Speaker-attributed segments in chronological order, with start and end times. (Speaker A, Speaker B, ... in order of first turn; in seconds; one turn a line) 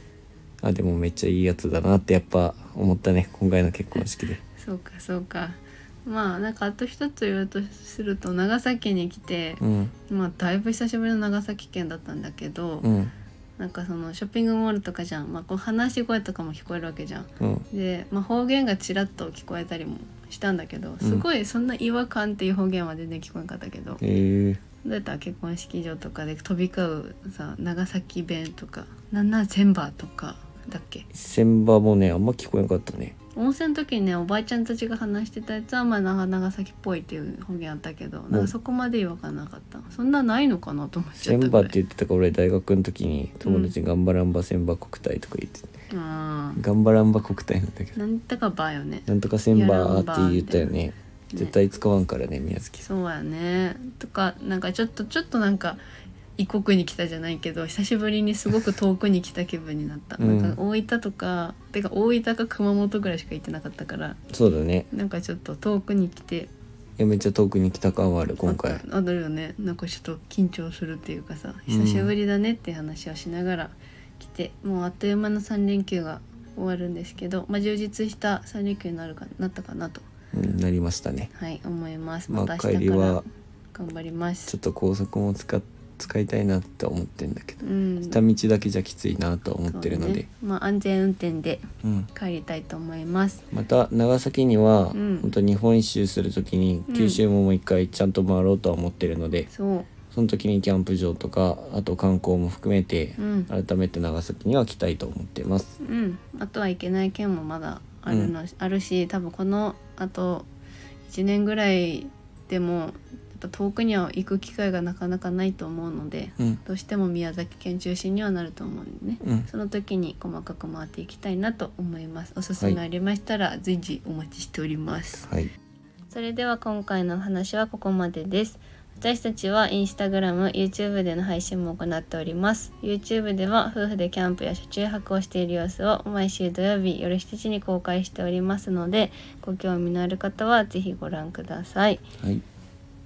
Speaker A: 0.6-4.4
Speaker B: 4.6-12.9
Speaker A: 9.6-9.9
Speaker A: 12.8-13.1
Speaker B: 13.6-24.0
Speaker A: 17.4-17.7
Speaker A: 24.0-24.6
Speaker B: 24.8-31.1
Speaker A: 31.1-33.2
Speaker B: 33.4-41.8
Speaker A: 41.2-45.7
Speaker B: 43.4-43.7
Speaker B: 45.9-46.6
Speaker A: 46.6-48.0
Speaker B: 48.0-50.8
Speaker A: 49.1-52.9
Speaker B: 52.8-55.8
Speaker B: 56.4-64.2
Speaker A: 60.2-60.6
Speaker A: 64.3-64.9
Speaker B: 64.9-66.5
Speaker A: 67.0-68.8
Speaker B: 68.4-80.0
Speaker A: 71.7-72.1
Speaker A: 80.3-81.3
Speaker B: 81.3-83.2
Speaker A: 82.3-83.2
Speaker B: 83.7-84.5
Speaker A: 84.5-90.3
Speaker B: 87.6-88.2
Speaker B: 89.7-93.4
Speaker A: 91.8-92.1
Speaker A: 93.5-99.5
Speaker B: 94.9-95.3
Speaker B: 96.9-97.2
Speaker B: 99.5-99.9
Speaker A: 100.1-105.7
Speaker B: 103.2-103.5
Speaker B: 105.8-110.5
Speaker A: 108.1-108.3
Speaker B: 111.1-125.3
Speaker A: 119.2-119.5
Speaker A: 125.2-125.5
Speaker B: 126.1-142.0